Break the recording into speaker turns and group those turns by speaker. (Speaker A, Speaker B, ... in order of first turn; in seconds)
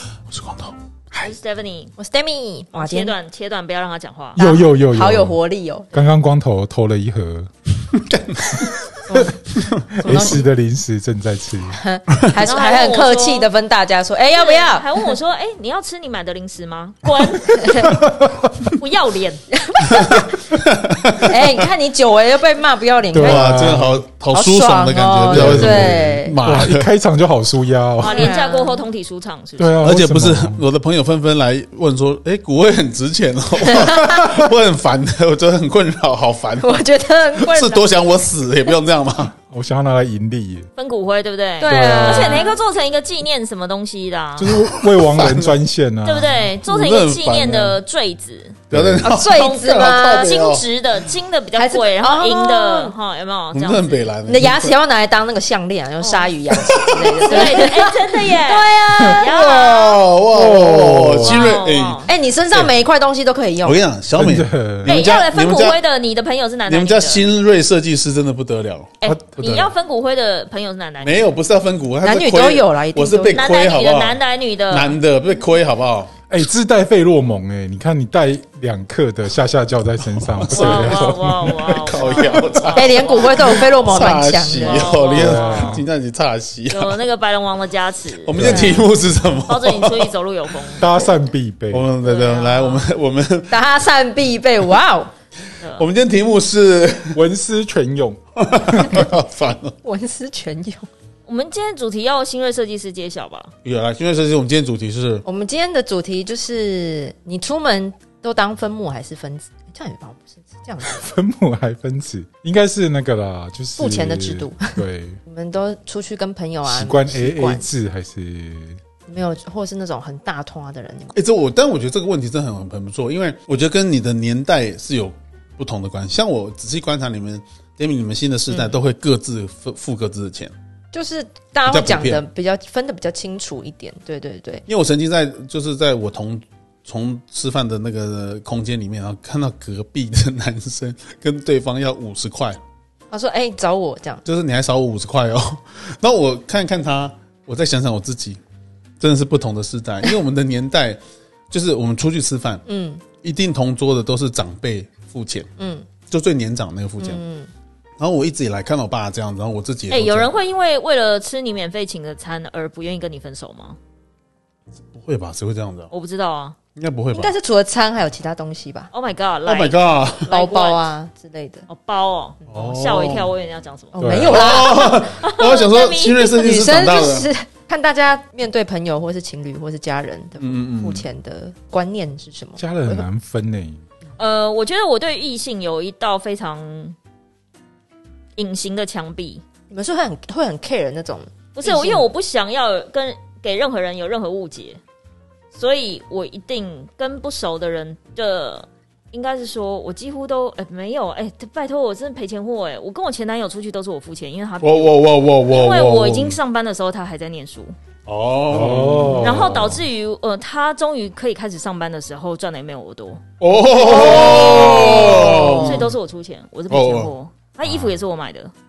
Speaker A: 0.3-1.3, 7.9-8.7, 9.6-10.4, 20.6-21.5, 23.1-26.9, 29.8-36.8, 37.4-39.3, 44.6-45.6, 46.6-47.8, 48.7-50.7, 53.5-54.8, 56.5-57.7, 59.1-62.7, 63.6-65.8, 66.7-69.7, 71.0-76.1, 80.4-81.0, 81.7-87.0, 88.2-90.1, 91.7-93.6, 95.8-97.2, 98.4-99.8, 103.6-105.2, 121.1-130.5, 131.7-132.2, 134.7-142.6, 144.2-148.4, 149.0-151.0, 151.5-152.7, 153.2-155.5, 156.1-157.2, 158.0-160.3, 164.9-165.9, 166.8-167.3, 169.5-170.3, 172.5-173.3, 174.1-177.3, 180.4-181.1, 204.6-206.4, 208.1-209.8, 213.4-215.9, 216.7-217.1
Speaker B: 1.2-1.9, 2.7-4.4, 12.4-13.5, 14.3-17.9, 18.7-19.4, 28.0-29.8, 40.8-44.6, 46.0-48.7, 49.2-54.1, 56.0-56.3, 57.0-60.0, 61.2-62.1, 64.9-67.3, 69.0-71.3, 73.3-74.9, 80.5-83.7, 84.6-85.8, 86.7-88.8, 89.5-90.9, 92.0-92.9, 95.6-95.9, 101.3-103.5, 159.9-163.8, 165.9-166.6, 168.9-170.9, 171.7-176.4, 184.2-187.0, 188.4-189.4, 191.5-194.8, 195.5-207.8, 209.2-218.5
Speaker C: 2.0-3.2, 4.4-5.9, 9.1-9.4, 9.9-10.5, 11.7-15.1, 17.5-18.0, 19.6-20.4, 21.2-26.4, 28.0-28.9, 33.7-34.4, 36.6-37.9, 41.6-42.5, 49.0-50.5, 51.6-53.0, 54.3-59.4, 62.1-63.8, 72.0-73.4, 82.8-85.1, 88.5-88.8, 93.5-95.1, 99.8-100.9, 105.2-111.0, 113.8-117.7, 119.1-121.1, 128.5-128.8, 130.9-134.6, 143.1-144.2, 152.7-153.0, 155.6-155.9, 157.0-157.5, 167.1-168.9, 170.3-171.7, 173.9-175.0, 176.3-183.1, 189.7-192.0, 213.7-215.8
Speaker D: 4.4-5.4, 5.9-7.5, 9.1-9.4, 9.9-11.8, 17.8-18.7, 23.1-24.1, 25.3-28.4, 29.6-30.6, 39.3-40.7, 41.6-42.5, 44.4-46.5, 48.7-49.1, 60.3-61.6, 64.2-65.0, 69.0-69.5, 76.3-82.5, 85.1-85.9, 88.3-88.8, 90.8-91.9, 97.1-99.0, 110.8-115.2, 116.6-118.8, 174.0-174.5, 182.6-183.8, 208.5-209.7